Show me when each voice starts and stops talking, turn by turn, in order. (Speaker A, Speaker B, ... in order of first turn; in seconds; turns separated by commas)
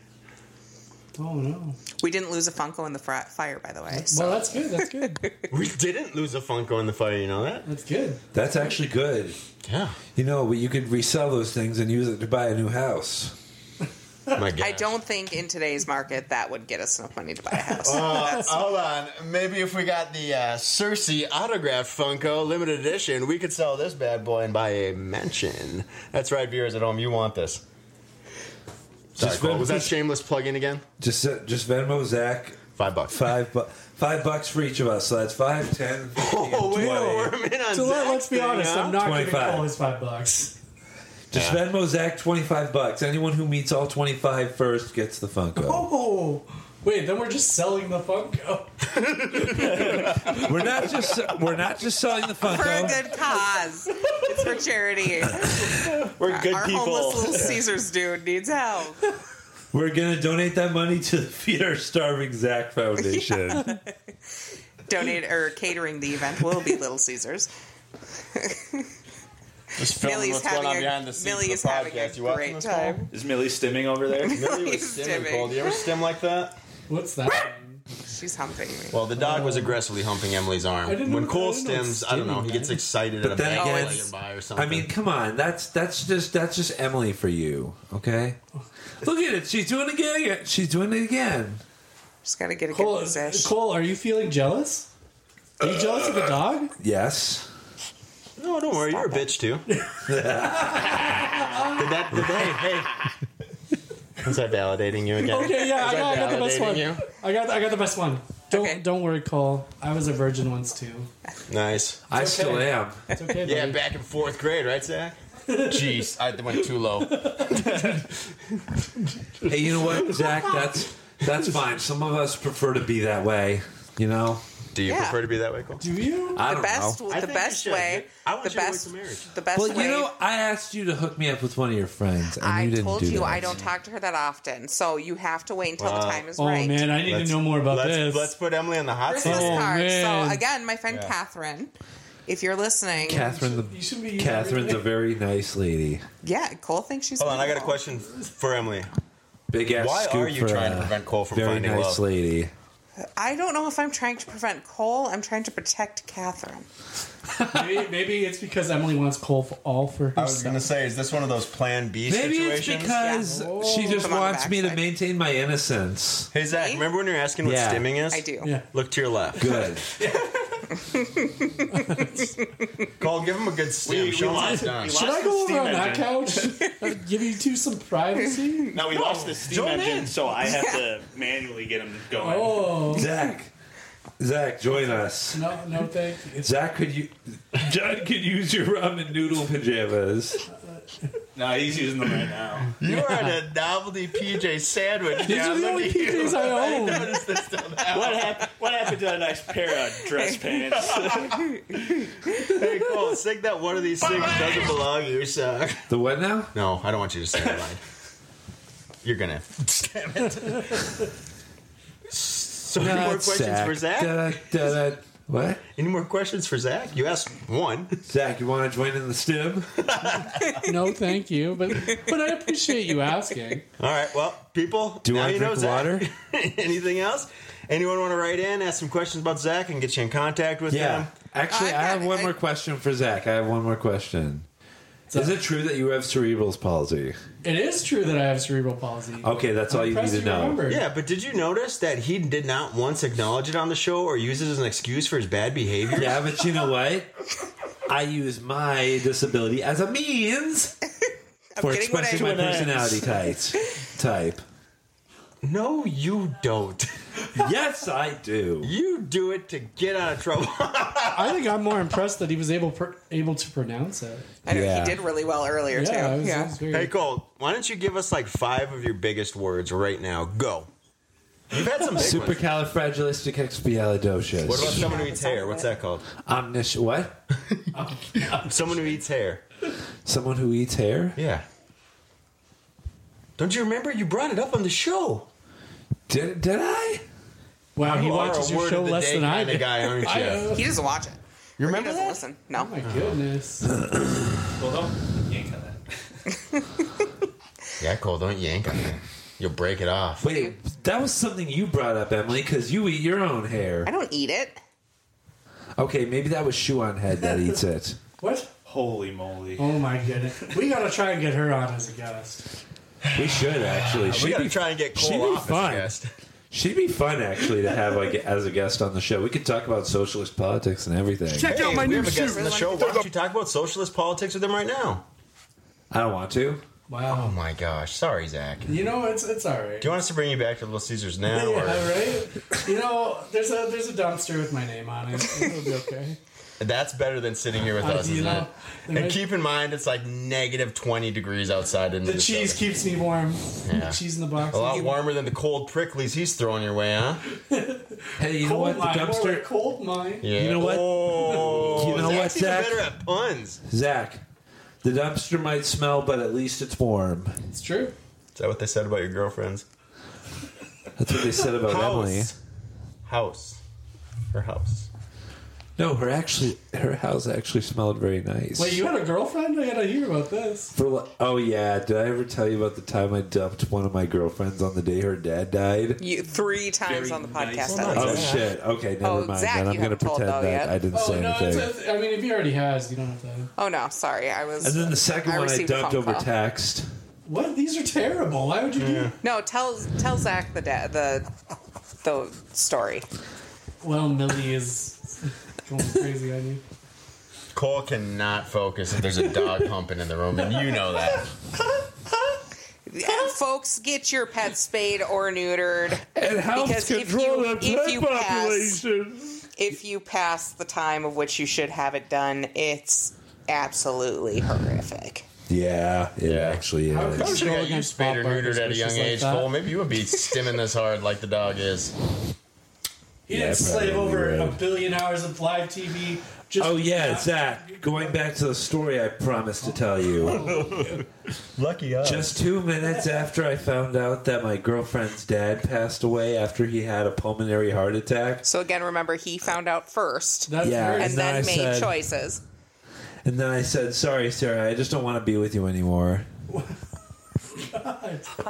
Speaker A: 1.2-1.8, Speaker B: 2.0-5.2, Speaker A: 3.9-5.2, Speaker C: 5.5-7.7, Speaker A: 7.7-8.2, Speaker D: 8.3-9.4, Speaker C: 9.6-10.0, Speaker D: 10.2-13.3, Speaker C: 14.3-15.0, Speaker B: 14.6-18.5, Speaker C: 17.8-27.6, Speaker C: 29.2-30.8, Speaker D: 29.2-29.9, Speaker D: 31.0-32.6, Speaker C: 32.8-33.3, Speaker D: 33.1-37.4, Speaker C: 36.2-39.0, Speaker A: 36.8-37.1, Speaker A: 37.7-40.6, Speaker D: 39.0-39.7, Speaker D: 41.3-45.9, Speaker C: 41.3-41.6, Speaker A: 45.6-48.7, Speaker C: 48.9-50.4, Speaker A: 49.4-50.4, Speaker D: 50.3-53.1, Speaker B: 52.4-59.1, Speaker E: 56.2-57.5, Speaker C: 57.2-57.5, Speaker D: 59.7-63.7, Speaker B: 63.0-63.9, Speaker B: 64.9-67.5, Speaker B: 68.3-68.8, Speaker C: 69.8-73.0, Speaker B: 70.0-73.1, Speaker E: 73.1-74.4, Speaker B: 74.2-75.9, Speaker C: 74.2-76.6, Speaker A: 76.9-77.8, Speaker B: 78.1-79.0, Speaker C: 78.9-84.9, Speaker A: 79.1-79.8, Speaker A: 80.8-82.8, Speaker D: 83.2-88.4, Speaker B: 83.5-84.1, Speaker D: 89.0-91.6, Speaker B: 92.2-93.5, Speaker A: 92.7-94.9, Speaker A: 95.6-96.7, Speaker D: 96.8-97.5, Speaker C: 98.4-99.7, Speaker B: 99.0-99.2, Speaker A: 99.7-100.0, Speaker D: 100.0-101.6, Speaker A: 100.7-101.8, Speaker C: 101.7-103.1, Speaker C: 104.2-107.0, Speaker A: 105.2-111.1, Speaker B: 108.5-108.8, Speaker C: 111.5-112.0, Speaker D: 112.1-113.0, Speaker A: 112.1-113.8, Speaker C: 113.4-118.1, Speaker A: 115.5-116.0, Speaker A: 117.1-117.9, Speaker D: 119.4-124.4, Speaker C: 124.7-125.8, Speaker B: 124.9-125.2, Speaker A: 125.8-126.5, Speaker D: 126.3-127.0, Speaker B: 126.4-130.1, Speaker C: 127.1-129.3, Speaker D: 129.6-133.7, Speaker B: 132.4-136.9, Speaker C: 135.8-136.3, Speaker A: 136.4-138.3, Speaker C: 137.0-139.7, Speaker B: 139.1-141.7, Speaker A: 139.2-140.4, Speaker B: 142.3-143.3, Speaker A: 143.1-144.8, Speaker D: 143.1-146.1, Speaker B: 146.2-147.8, Speaker C: 147.2-148.9, Speaker D: 149.5-152.5, Speaker C: 149.7-152.0, Speaker B: 153.0-156.7, Speaker A: 157.4-160.7, Speaker C: 160.2-163.0, Speaker D: 162.1-166.3, Speaker B: 163.0-164.9, Speaker A: 163.3-164.1, Speaker C: 166.3-169.5, Speaker B: 166.5-166.9, Speaker D: 167.4-167.9, Speaker B: 168.1-168.5, Speaker A: 168.4-168.7, Speaker D: 169.4-169.8, Speaker B: 170.9-172.3, Speaker A: 171.8-172.2, Speaker C: 173.0-175.0, Speaker E: 173.8-176.7, Speaker A: 174.5-178.8, Speaker E: 178.7-183.0, Speaker C: 179.4-180.2, Speaker B: 180.5-180.8, Speaker A: 182.2-183.1, Speaker D: 182.9-183.5, Speaker D: 184.2-185.4, Speaker A: 185.3-186.5, Speaker D: 186.4-190.4, Speaker E: 191.3-192.7, Speaker C: 192.8-198.5, Speaker A: 192.8-193.4, Speaker A: 195.2-197.2, Speaker E: 197.9-201.5, Speaker C: 200.9-201.3, Speaker B: 201.7-202.2, Speaker C: 202.3-205.8, Speaker D: 205.9-206.6, Speaker C: 206.5-207.8, Speaker C: 209.0-211.1, Speaker C: 212.1-214.4, Speaker D: 212.8-215.6, Speaker C: 215.8-217.9, Speaker D: 218.1-219.7, Speaker C: 219.8-220.7, Speaker A: 220.6-223.7, Speaker C: 223.8-231.1, Speaker D: 225.0-226.1, Speaker D: 230.7-234.5, Speaker B: 231.5-232.3, Speaker A: 235.1-235.4, Speaker D: 235.1-237.2, Speaker A: 237.4-240.8, Speaker D: 239.2-240.6, Speaker C: 240.7-246.3, Speaker D: 245.9-247.1, Speaker D: 247.9-250.8, Speaker B: 251.5-253.0, Speaker D: 251.6-254.4, Speaker C: 255.4-256.9, Speaker D: 257.4-258.7, Speaker C: 258.6-261.6, Speaker A: 261.1-264.3, Speaker B: 264.4-266.6, Speaker D: 264.5-265.0, Speaker A: 265.7-266.9, Speaker C: 266.7-270.7, Speaker C: 271.5-272.4, Speaker D: 271.9-274.9, Speaker C: 274.4-276.1, Speaker B: 274.5-275.7, Speaker D: 276.2-277.2, Speaker C: 277.4-277.7, Speaker A: 277.7-278.6, Speaker C: 278.3-279.4, Speaker D: 280.1-281.2, Speaker C: 281.2-281.4, Speaker C: 283.4-285.3, Speaker D: 286.1-287.0, Speaker A: 287.8-290.7, Speaker C: 287.8-290.5, Speaker B: 290.2-292.7, Speaker C: 291.6-292.2, Speaker A: 292.5-293.7, Speaker C: 292.8-293.2, Speaker D: 293.7-294.4, Speaker E: 294.6-295.8, Speaker C: 297.8-300.3, Speaker D: 300.2-303.9, Speaker B: 300.2-300.6, Speaker B: 303.9-304.6, Speaker D: 305.8-308.0, Speaker A: 308.2-308.5, Speaker E: 308.7-309.8, Speaker A: 309.6-312.4, Speaker C: 313.0-316.1, Speaker D: 313.1-316.0, Speaker D: 316.5-321.6, Speaker A: 321.3-322.8, Speaker C: 321.4-325.1, Speaker B: 321.7-323.1, Speaker D: 325.9-326.6, Speaker A: 326.9-327.4, Speaker C: 327.1-328.8, Speaker A: 328.6-330.0, Speaker C: 329.8-332.1, Speaker A: 331.3-336.2, Speaker C: 336.6-342.6, Speaker A: 337.8-339.2, Speaker A: 342.0-345.0, Speaker C: 343.6-347.2, Speaker A: 347.3-350.4, Speaker D: 348.2-349.5, Speaker C: 350.2-353.6, Speaker D: 350.4-352.9, Speaker A: 351.2-352.3, Speaker D: 353.6-354.2, Speaker D: 354.8-357.4, Speaker A: 357.5-357.9, Speaker C: 358.4-359.6, Speaker D: 361.0-362.3, Speaker C: 361.6-362.4, Speaker C: 363.1-363.6, Speaker C: 364.3-364.9, Speaker D: 365.8-368.8, Speaker A: 368.6-370.7, Speaker D: 370.7-376.0, Speaker B: 376.0-378.4, Speaker E: 376.9-378.4, Speaker D: 377.8-381.7, Speaker C: 377.9-378.4, Speaker B: 379.0-380.7, Speaker A: 380.9-383.5, Speaker B: 383.6-386.3, Speaker D: 384.6-386.9, Speaker A: 387.2-389.1, Speaker C: 388.8-389.1, Speaker B: 389.2-391.3, Speaker B: 392.0-393.1, Speaker A: 393.8-396.6, Speaker C: 397.5-401.3, Speaker B: 402.9-408.8, Speaker D: 406.1-409.4, Speaker B: 409.6-415.2, Speaker D: 415.5-417.5, Speaker C: 416.2-416.6, Speaker A: 416.9-419.5, Speaker C: 417.1-421.9, Speaker A: 423.3-428.1, Speaker D: 423.3-424.6, Speaker D: 426.6-430.5, Speaker C: 430.3-431.1, Speaker A: 430.3-430.9, Speaker C: 431.6-432.4, Speaker D: 432.0-438.4, Speaker B: 438.4-442.4, Speaker A: 440.5-441.3, Speaker D: 440.6-441.9, Speaker D: 443.2-446.3, Speaker A: 447.5-448.3